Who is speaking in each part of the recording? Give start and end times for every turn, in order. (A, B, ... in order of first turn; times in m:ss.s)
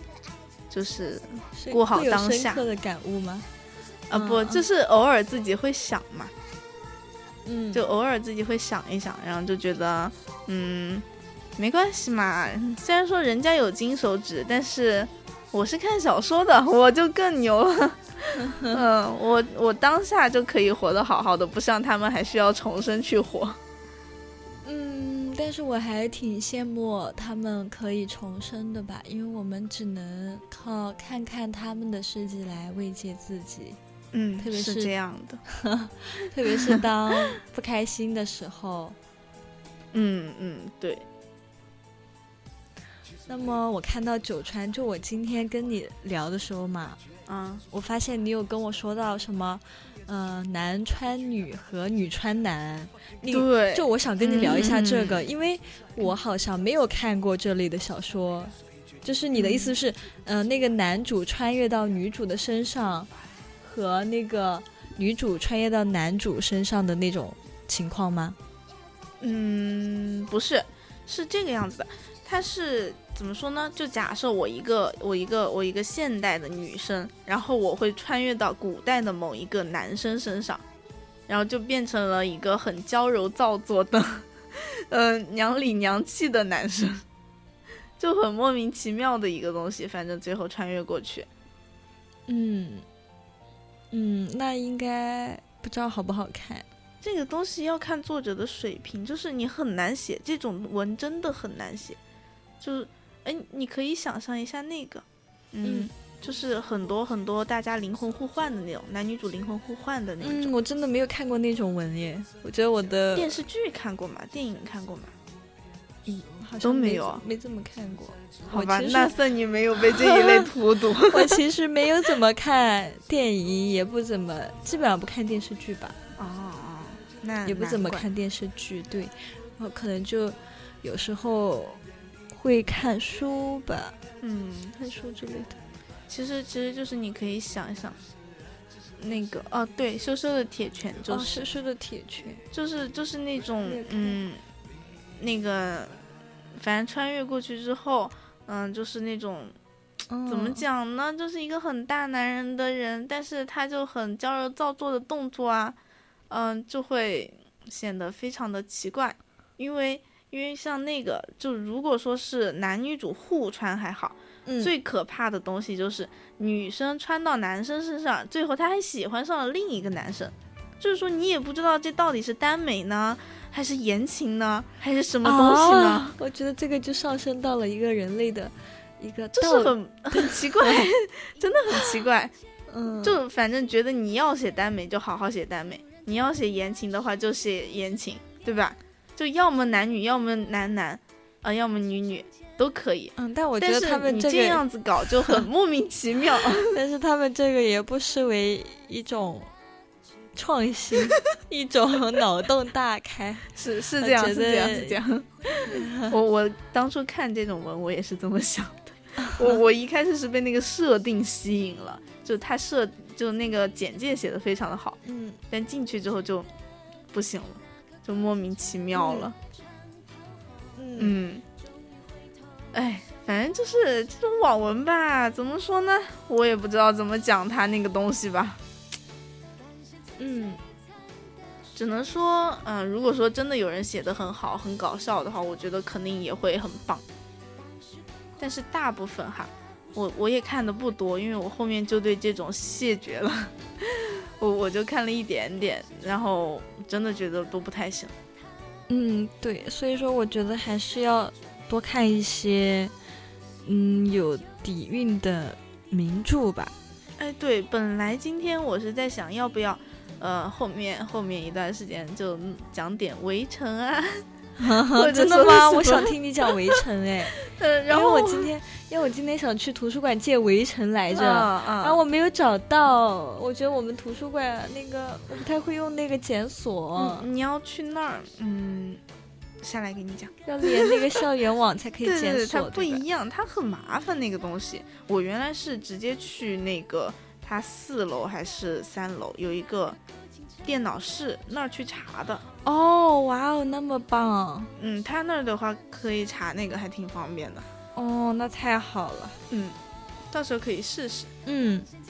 0:00.7-0:02.6 A
0:01.6-0:03.5 B
0:04.1-0:06.3 A
0:04.1-0:04.6 B
0:07.4-0:07.8 B
0:07.7-0:11.0 A
0:11.6-0:23.6 A
0:18.4-0:18.8 B
0:24.6-0:33.8 B
0:34.1-0:35.4 A
0:34.4-0:34.9 B
0:35.5-0:39.0 B
0:39.9-0:41.0 A
0:43.3-0:47.0 B
0:47.3-0:47.6 A
0:47.7-1:03.1 B
0:53.3-0:55.3 A
0:59.3-0:59.8 A
1:03.6-1:08.4 B
1:09.2-1:20.6 A
1:21.3-1:27.0 A
1:28.0-1:31.3 A
1:32.3-1:32.8 B
1:33.9-1:36.7 B
1:37.0-1:42.0 A
1:42.6-1:50.5 A
1:45.6-1:45.9 B
1:50.2-1:53.4 B
1:53.2-1:55.1 A
1:56.1-1:59.1 B
1:56.6-1:57.2 A
1:58.5-2:01.4 A
1:59.8-2:06.0 B
2:06.2-2:08.1 A
2:07.4-2:14.0 B
2:14.2-2:14.8 A
2:14.7-2:15.6 B
2:16.1-2:18.0 A
2:19.0-2:21.4 A
2:21.1-2:22.4 B
2:22.5-2:24.4 A
2:23.6-2:24.2 B
2:25.2-2:26.0 A
2:26.6-2:29.6 A
2:30.1-2:30.6 B
2:30.3-2:35.8 A
2:36.3-2:56.2 A
2:44.5-2:44.7 B
2:55.2-3:00.8 B
2:59.4-3:02.3 A
3:01.7-3:02.0 B
3:02.7-3:03.2 B
3:03.0-3:16.8 A
3:13.2-3:14.6 B
3:16.6-3:19.5 B
3:20.4-3:25.0 B
3:23.6-3:35.0 A
3:25.6-3:26.1 B
3:29.2-3:29.6 B
3:35.0-3:35.4 B
3:35.5-3:36.5 A
3:37.1-3:39.4 A
3:39.0-3:39.3 B
3:40.8-3:41.2 B
3:41.0-3:41.4 A
3:42.7-3:48.6 A
3:50.2-3:50.6 B
3:51.8-3:57.0 A
3:58.4-4:08.1 A
4:08.9-4:12.9 B
4:13.6-4:16.7 B
4:17.2-4:24.2 A
4:24.6-4:27.4 B
4:24.9-4:26.8 A
4:27.4-4:28.5 A
4:27.9-4:37.3 B
4:31.1-4:32.0 A
4:37.0-4:39.0 A
4:39.6-4:41.2 A
4:40.5-4:43.0 B
4:42.0-4:50.0 A
4:50.6-4:52.4 A
4:52.6-4:54.7 B
4:54.8-4:57.7 A
4:58.0-4:59.4 B
4:59.5-4:59.8 A
5:00.3-5:01.3 A
5:01.5-5:01.9 B